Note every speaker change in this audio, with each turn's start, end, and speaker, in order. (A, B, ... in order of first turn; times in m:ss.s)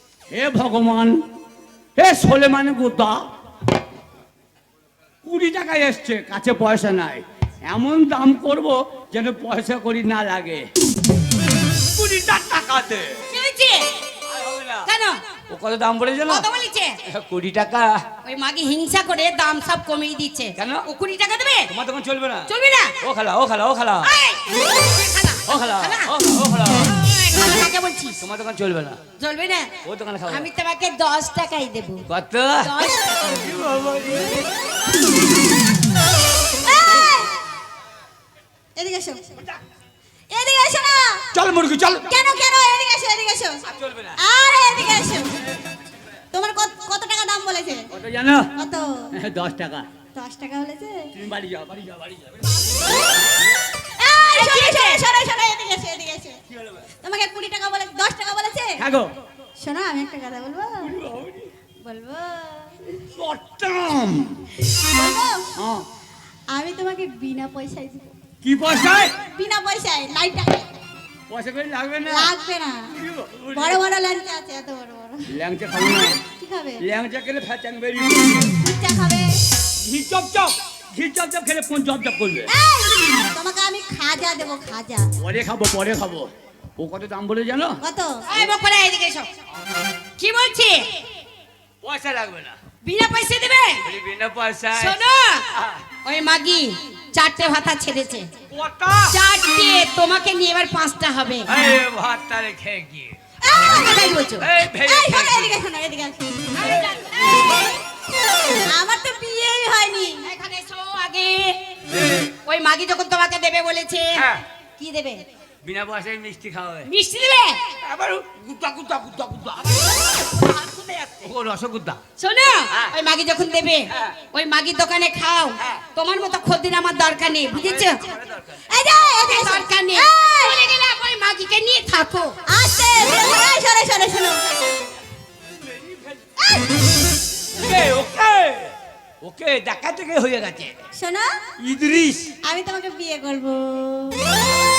0:00.3-0:01.2 A
0:02.0-0:03.2 A
0:05.2-0:10.7 A
0:11.9-0:13.2 A
0:13.3-0:14.0 B
0:14.2-0:14.9 A
0:14.9-0:15.2 B
0:15.5-0:16.5 A
0:16.2-0:17.0 B
0:17.0-0:18.0 A
0:18.2-0:21.7 B
0:20.6-0:20.9 A
0:21.7-0:24.1 A
0:22.5-0:23.0 B
0:24.0-0:26.1 B
0:25.4-0:27.0 A
0:26.9-0:28.2 B
0:28.2-0:29.0 A
0:29.2-0:32.1 B
0:29.8-0:30.5 A
0:32.1-0:34.4 A
0:32.6-0:33.4 B
0:36.5-0:37.3 C
0:38.8-0:39.2 C
0:40.3-0:41.2 C
0:41.3-0:42.1 A
0:42.0-0:43.6 C
0:43.6-0:44.2 A
0:44.2-0:45.3 C
0:46.3-0:47.9 C
0:47.9-0:48.5 A
0:48.6-0:49.0 C
0:49.1-0:49.9 A
0:50.2-0:51.1 C
0:51.1-0:52.6 A
0:54.0-0:56.4 C
0:54.3-0:55.0 B
0:57.0-0:58.8 C
0:58.8-0:59.1 A
0:59.6-1:00.9 C
1:00.8-1:01.5 A
1:01.8-1:02.9 C
1:03.1-1:04.4 A
1:04.7-1:05.5 C
1:05.6-1:05.9 A
1:06.5-1:08.1 C
1:08.4-1:09.2 A
1:09.3-1:10.7 C
1:11.3-1:12.3 A
1:12.1-1:12.8 C
1:12.9-1:13.8 A
1:13.5-1:15.3 C
1:15.3-1:16.2 A
1:16.2-1:16.8 C
1:16.8-1:18.5 A
1:18.6-1:19.4 C
1:19.8-1:22.5 A
1:22.5-1:25.1 C
1:25.2-1:27.8 A
1:27.8-1:28.4 C
1:28.3-1:29.3 B
1:30.2-1:31.0 B
1:31.8-1:32.6 A
1:32.8-1:33.9 B
1:33.8-1:35.0 A
1:34.7-1:35.5 B
1:35.5-1:35.9 A
1:36.0-1:38.3 B
1:38.5-1:39.2 A
1:39.1-1:41.5 B
1:41.5-1:43.2 A
1:43.4-1:44.1 C
1:43.7-1:44.5 B
1:44.4-1:45.6 A
1:44.7-1:46.5 C
1:46.6-1:47.5 B
1:46.6-1:47.0 A
1:48.7-1:50.3 C
1:50.2-1:51.6 B
1:51.9-1:52.3 A
1:52.3-1:55.2 B
1:54.2-1:54.4 A
1:55.6-1:56.9 A
1:56.9-1:57.7 B
1:57.8-2:02.0 A
2:02.2-2:08.1 B
2:02.7-2:03.0 A
2:03.9-2:04.2 A
2:07.6-2:08.6 A
2:08.7-2:10.7 C
2:09.2-2:12.4 B
2:12.5-2:14.4 C
2:15.6-2:16.2 A
2:16.4-2:16.7 C
2:17.5-2:20.8 A
2:21.0-2:21.3 C
2:21.6-2:22.3 A
2:22.4-2:24.3 C